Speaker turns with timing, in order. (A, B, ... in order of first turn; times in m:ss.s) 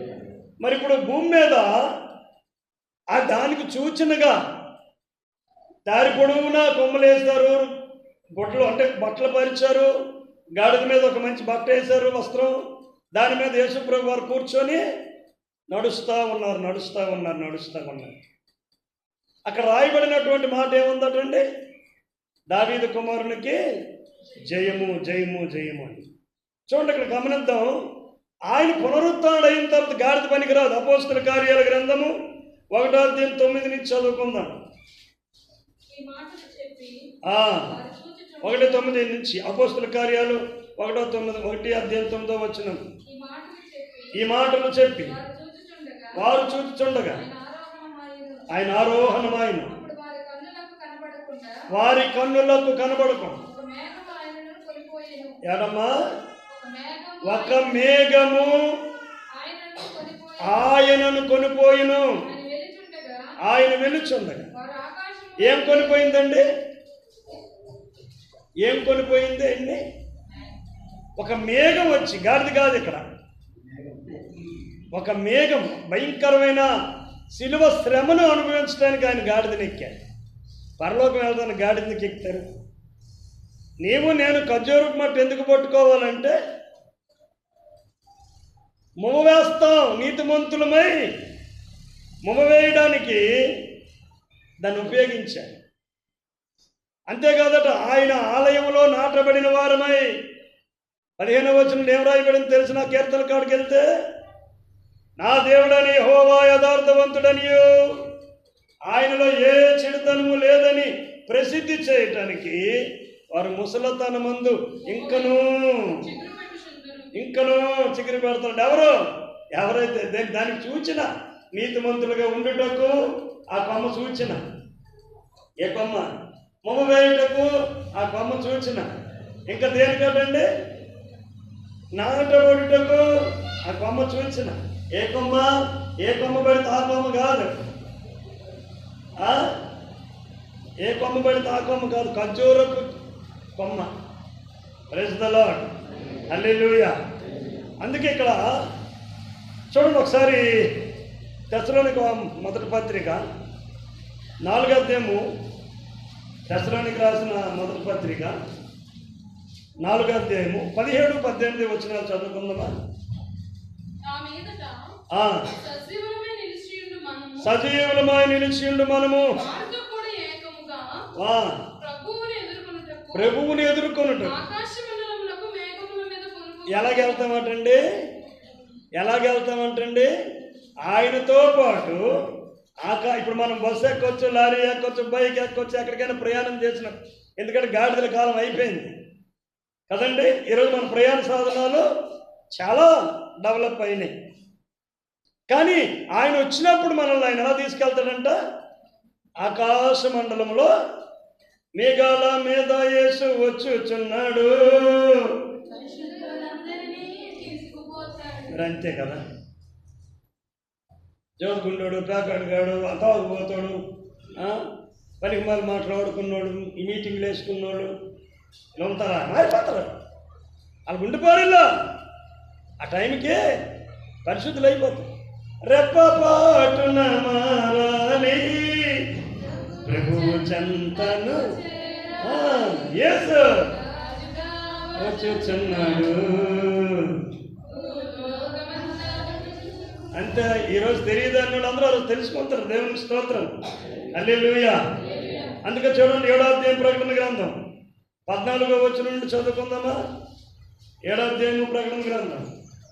0:00.6-0:01.7 A
0:03.1-0:04.4 A
0:05.9-0:07.7 A
0:08.4-0:09.9 A
0:10.6-0:12.6 A
0:13.2-0:14.8 A
0:15.7-0:18.2 A
0:19.5-0:21.5 A
0:22.5-0:23.6 A
0:24.4-0:26.0 A
0:26.7-0:27.8 A
0:28.5-0:32.1 A
0:32.7-0:34.6 A
0:35.9-0:38.9 B
0:37.2-0:37.7 A
0:38.4-0:42.8 A
0:43.1-0:46.2 B
0:44.1-0:45.2 A
0:46.2-0:47.2 A
0:47.1-0:48.5 B
0:48.5-0:49.7 A
0:49.6-0:51.6 B
0:51.7-0:53.4 A
0:53.4-0:55.4 B
0:55.4-0:56.0 A
0:56.5-0:57.7 B
0:57.2-0:58.6 A
0:59.4-1:00.7 B
1:00.4-1:02.2 A
1:02.2-1:03.3 B
1:03.4-1:04.5 A
1:04.5-1:06.3 B
1:05.4-1:06.5 A
1:08.6-1:09.8 A
1:11.2-1:13.0 A
1:14.9-1:16.7 A
1:17.3-1:20.0 A
1:20.8-1:22.5 A
1:23.8-1:26.4 A
1:29.0-1:31.0 A
1:32.2-1:33.2 A
1:34.6-1:35.6 A
1:37.1-1:40.1 A
1:41.2-1:43.9 A
1:45.2-1:48.0 A
1:48.9-1:52.7 A
1:53.3-1:56.0 A
1:54.9-1:55.4 C
1:56.0-1:57.1 C
1:57.1-1:59.0 A
1:59.5-2:03.0 A
2:03.5-2:04.4 A
2:05.6-2:06.1 A
2:06.7-2:08.9 A
2:09.5-2:10.5 A
2:12.0-2:17.5 A
2:19.2-2:19.5 A
2:20.8-2:23.0 A
2:23.6-2:23.9 A
2:24.9-2:25.7 A
2:26.3-2:26.9 A
2:27.8-2:28.5 A
2:29.7-2:30.7 A
2:31.5-2:33.2 A
2:34.4-2:35.2 A
2:36.5-2:38.4 A
2:39.8-2:42.7 A
2:44.0-2:44.8 C
2:45.1-2:45.5 A
2:45.6-2:47.5 C
2:47.4-2:49.3 A
2:49.3-2:51.0 C
2:51.2-2:51.6 A
2:51.8-2:53.4 C
2:53.1-2:54.4 A
2:54.2-2:57.2 C
2:56.7-2:57.8 A
2:59.0-3:00.1 A
3:00.8-3:02.0 A
3:02.8-3:08.9 A
3:09.9-3:11.9 A
3:12.5-3:14.1 A
3:15.5-3:18.4 A
3:19.4-3:20.7 A
3:21.8-3:25.4 A
3:25.7-3:28.6 B
3:28.5-3:29.2 A
3:31.4-3:33.8 A
3:34.4-3:34.6 A
3:35.2-3:37.9 A
3:38.8-3:40.0 A
3:40.9-3:41.7 A
3:42.8-3:43.4 A
3:44.2-3:45.1 A
3:45.6-3:49.2 A
3:49.8-3:51.5 A
3:50.0-3:52.7 C
3:52.2-3:53.8 A
3:53.9-3:56.2 C
3:55.0-3:57.3 A
3:57.7-3:59.3 C
3:57.7-3:59.9 B
4:00.1-4:03.5 A
4:04.1-4:04.8 A
4:05.1-4:05.6 B
4:05.6-4:07.6 A
4:08.3-4:10.0 A
4:11.1-4:12.5 A